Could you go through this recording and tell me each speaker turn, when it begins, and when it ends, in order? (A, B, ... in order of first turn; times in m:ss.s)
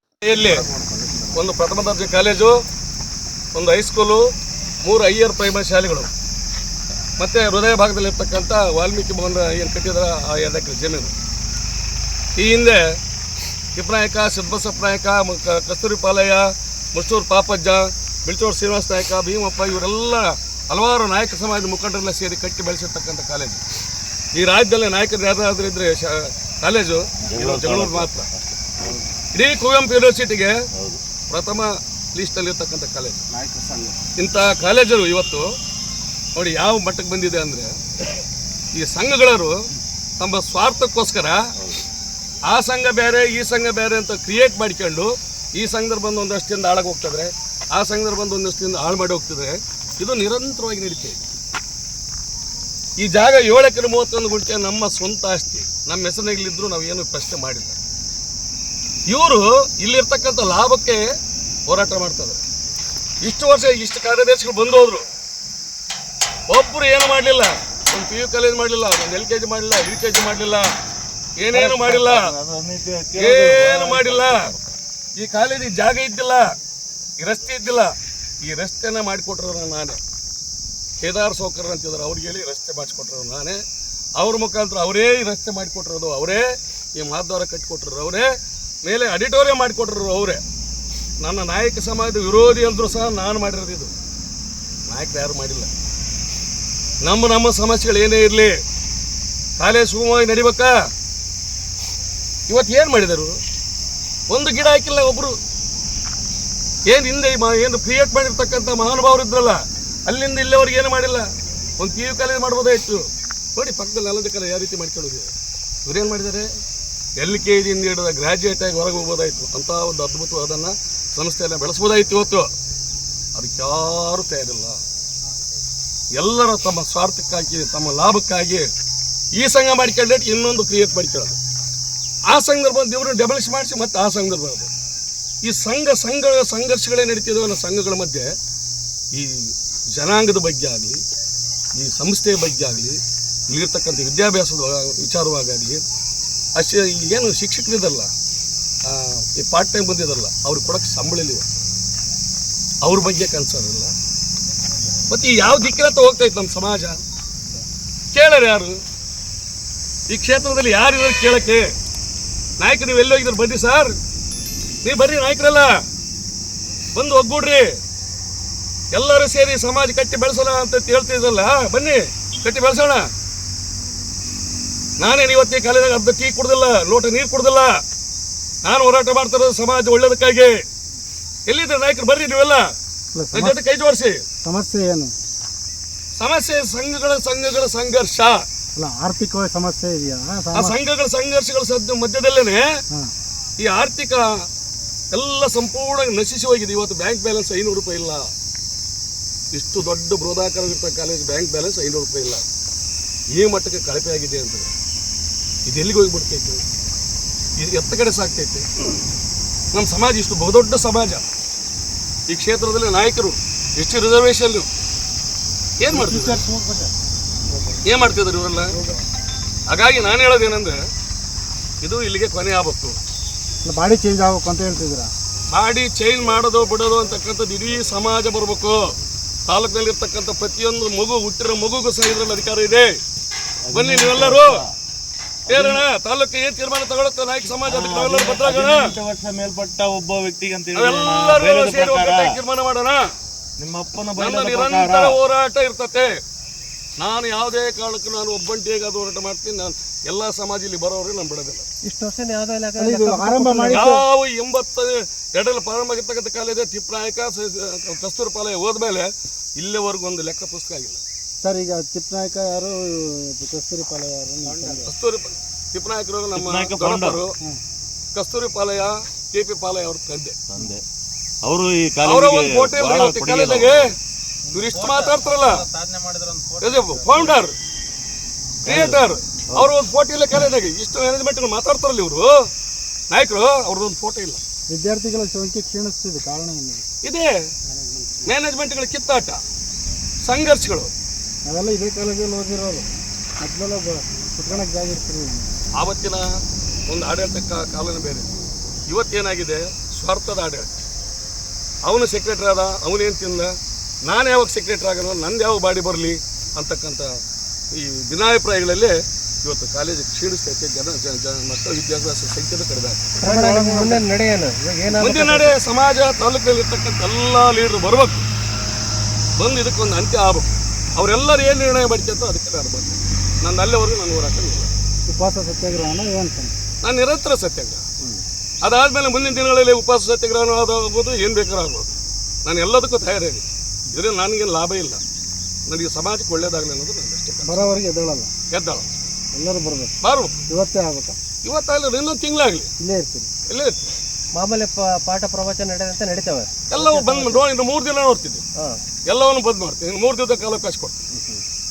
0:00.2-0:00.6 A
0:01.3-0:02.6 A
0:03.5-0:04.3 A
0:04.8-0:06.1 A
0:07.2-0:11.1 A
0:12.4-0:13.0 A
0:13.8-0:23.6 A
0:24.4-0:28.3 A
0:27.2-0:28.6 B
0:29.3-0:30.6 A
0:30.7-0:31.0 B
0:31.3-0:33.2 A
0:33.4-0:33.9 B
0:34.2-0:35.5 A
0:36.3-0:37.8 A
0:38.7-0:39.6 A
0:40.2-0:41.4 A
0:42.5-0:51.2 A
0:53.0-0:57.8 A
0:59.1-1:01.0 A
1:01.7-1:02.4 A
1:03.2-1:05.0 A
1:06.5-1:10.7 A
1:11.4-1:12.3 A
1:11.6-1:14.6 B
1:13.1-1:14.5 A
1:15.2-1:16.5 A
1:17.2-1:20.0 A
1:21.0-1:23.6 A
1:24.2-1:28.3 A
1:28.8-1:30.4 A
1:31.2-1:33.9 A
1:34.9-1:35.7 A
1:37.0-1:38.6 A
1:39.6-1:40.9 A
1:42.5-1:43.4 A
1:44.3-1:45.4 A
1:46.9-1:55.3 A
1:55.8-1:56.5 A
1:57.2-2:02.5 A
2:03.3-2:04.8 A
2:06.1-2:08.7 A
2:09.4-2:11.4 A
2:12.3-2:14.7 A
2:15.4-2:18.3 A
2:19.1-2:21.0 A
2:21.8-2:25.8 A
2:26.6-2:28.1 A
2:28.8-2:31.5 A
2:32.8-2:33.9 A
2:35.1-2:37.0 A
2:38.1-2:38.8 A
2:40.1-2:41.7 A
2:42.6-2:44.0 A
2:44.8-2:45.8 A
2:46.9-2:47.8 A
2:48.9-2:53.1 A
2:55.0-2:57.8 A
2:58.6-3:00.6 A
3:01.5-3:02.7 A
3:03.1-3:03.6 C
3:03.3-3:04.2 A
3:04.4-3:05.1 C
3:06.2-3:08.4 A
3:08.8-3:10.8 C
3:10.5-3:12.7 A
3:13.6-3:14.3 A
3:15.1-3:18.3 A
3:19.5-3:22.4 A
3:23.3-3:24.7 A
3:25.7-3:26.6 A
3:27.6-3:28.7 A
3:29.7-3:31.3 A
3:32.3-3:34.7 A
3:35.8-3:36.4 A
3:35.9-3:36.9 C
3:37.8-3:38.8 A
3:39.7-3:40.8 A
3:41.8-3:43.0 A
3:43.6-3:45.1 C
3:45.5-3:49.0 A
3:49.5-3:53.0 A
3:53.7-3:54.7 B
3:53.7-3:54.6 A
3:55.5-3:55.8 B
3:55.5-3:59.0 A
3:57.6-4:02.4 B
4:00.7-4:03.1 A
4:03.6-4:05.2 B
4:04.2-4:06.1 A
4:07.0-4:11.7 A
4:11.8-4:13.9 D
4:12.8-4:14.0 C
4:13.7-4:21.0 A
4:21.4-4:24.9 C
4:24.5-4:27.4 A
4:26.3-4:27.2 B
4:28.1-4:30.4 A
4:30.5-4:30.8 B
4:31.4-4:33.9 B
4:32.0-4:33.9 A
4:34.5-4:35.6 A
4:36.6-4:37.6 A
4:38.6-4:39.7 B
4:38.6-4:42.4 A
4:43.1-4:44.4 A
4:44.7-4:46.9 C
4:47.0-4:47.4 A
4:47.7-4:48.3 C
4:48.2-4:49.4 A
4:50.2-4:50.9 A
4:51.4-4:52.9 C
4:53.4-4:55.6 C
4:55.8-4:56.3 A
4:56.9-4:58.3 A
4:58.9-5:00.7 A
5:01.8-5:03.5 A
5:04.1-5:07.1 A
5:07.7-5:13.1 A
5:13.2-5:15.6 D
5:13.2-5:14.0 C
5:15.0-5:18.3 A
5:19.4-5:24.7 A
5:25.1-5:26.6 C
5:26.8-5:27.9 A
5:28.6-5:31.9 A
5:32.4-5:35.0 A
5:35.7-5:37.7 A
5:37.4-5:38.3 C
5:38.5-5:38.9 A
5:39.3-5:39.9 C
5:40.0-5:40.4 A
5:40.5-5:41.2 C
5:41.4-5:42.7 A
5:42.8-5:43.3 C
5:43.5-5:43.9 A
5:44.3-5:47.4 D
5:46.7-5:48.4 A
5:48.6-5:48.8 D
5:49.1-5:51.0 A
5:51.1-5:51.4 D